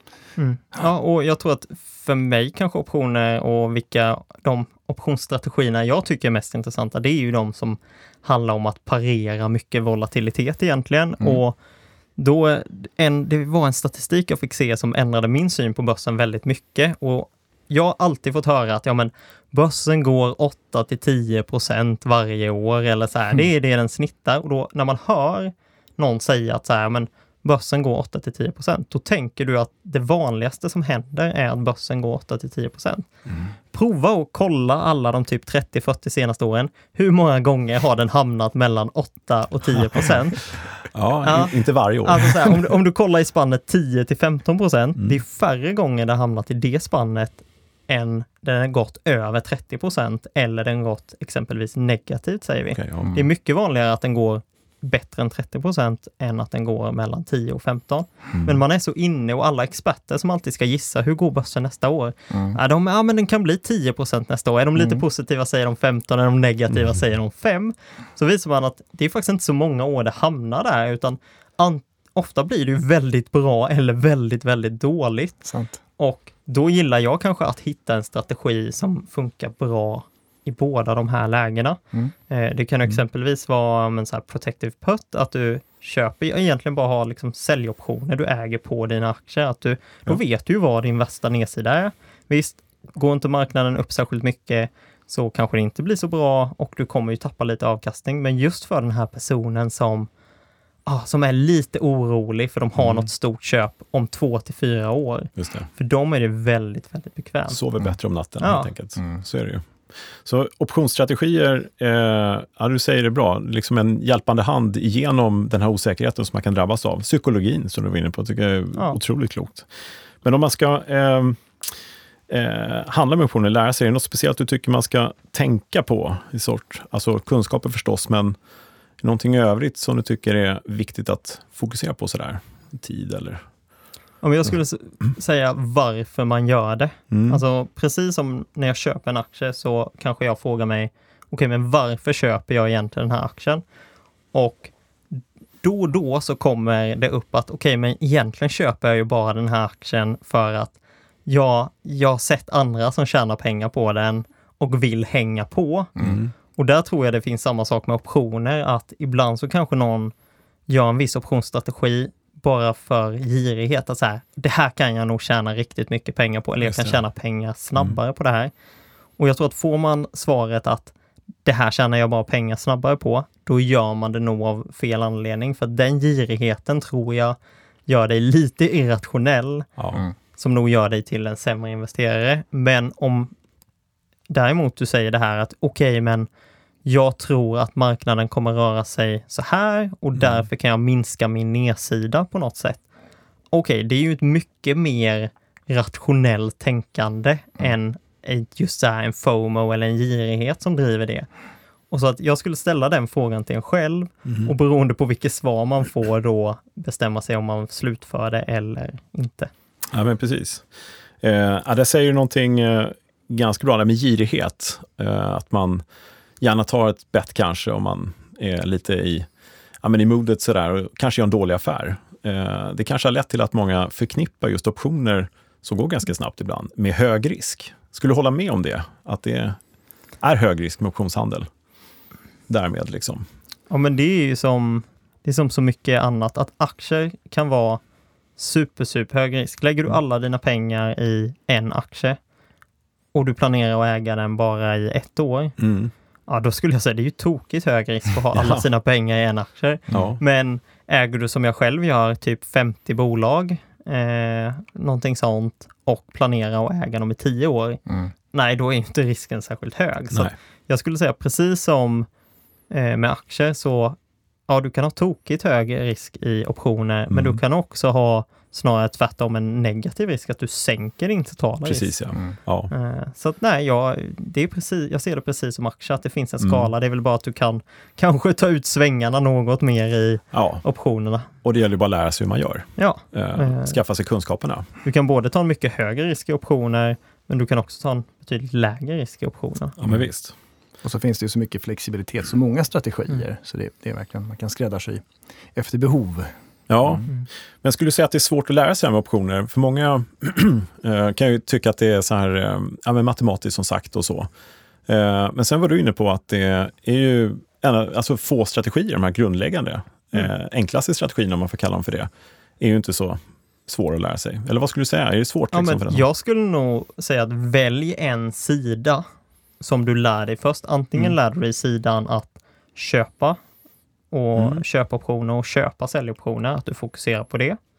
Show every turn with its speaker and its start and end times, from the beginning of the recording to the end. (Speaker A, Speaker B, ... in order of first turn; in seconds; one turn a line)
Speaker A: 0.4-11.6
Speaker A: 12.2-33.1
Speaker A: 33.7-40.5
Speaker B: 40.9-42.5
Speaker A: 41.2-81.8
Speaker B: 52.7-53.1
Speaker C: 53.0-53.3
Speaker B: 58.3-58.6
Speaker C: 62.3-62.6
Speaker C: 64.8-65.0
Speaker C: 75.5-75.8
Speaker A: 82.3-100.1
Speaker A: 100.8-107.6
Speaker B: 102.8-103.1
Speaker B: 105.4-105.7
Speaker B: 107.5-119.7
Speaker A: 108.4-108.7
Speaker B: 120.2-121.4
Speaker B: 122.3-128.3
Speaker B: 129.0-133.4
Speaker A: 134.2-143.6
Speaker B: 137.1-137.4
Speaker A: 144.3-150.7
Speaker A: 151.3-155.9
Speaker B: 156.0-156.3
Speaker A: 156.5-160.1
Speaker A: 160.7-168.5
Speaker B: 166.6-167.0
Speaker A: 169.2-170.9
Speaker A: 171.4-179.7
Speaker B: 179.8-180.0
Speaker A: 180.3-183.3
Speaker A: 184.3-186.3
Speaker A: 186.8-192.8
Speaker A: 193.5-201.3
Speaker A: 201.9-209.5
Speaker B: 204.2-204.5
Speaker B: 209.9-210.7
Speaker B: 211.2-215.8
Speaker B: 216.4-219.3
Speaker B: 219.8-229.6
Speaker B: 230.2-231.5
Speaker B: 232.5-233.3
Speaker A: 233.7-237.8
Speaker A: 238.4-242.2
Speaker A: 243.1-245.6
Speaker B: 245.6-245.9
Speaker A: 246.3-257.8
Speaker B: 248.3-248.7
Speaker B: 249.9-250.2
Speaker C: 257.9-258.1
Speaker A: 258.3-262.1
Speaker A: 262.7-263.9
Speaker A: 264.5-271.9
Speaker B: 267.1-267.4
Speaker B: 271.6-272.7
Speaker A: 272.7-281.3
Speaker B: 276.4-276.7
Speaker B: 280.3-280.6
Speaker B: 281.4-284.7
Speaker A: 282.8-283.8
Speaker A: 284.8-289.8
Speaker B: 289.8-290.3
Speaker C: 290.8-297.1
Speaker B: 296.7-297.1
Speaker B: 297.6-304.3
Speaker B: 304.9-316.0
Speaker A: 315.5-319.1
Speaker A: 319.6-323.4
Speaker A: 324.1-327.6
Speaker B: 324.4-324.6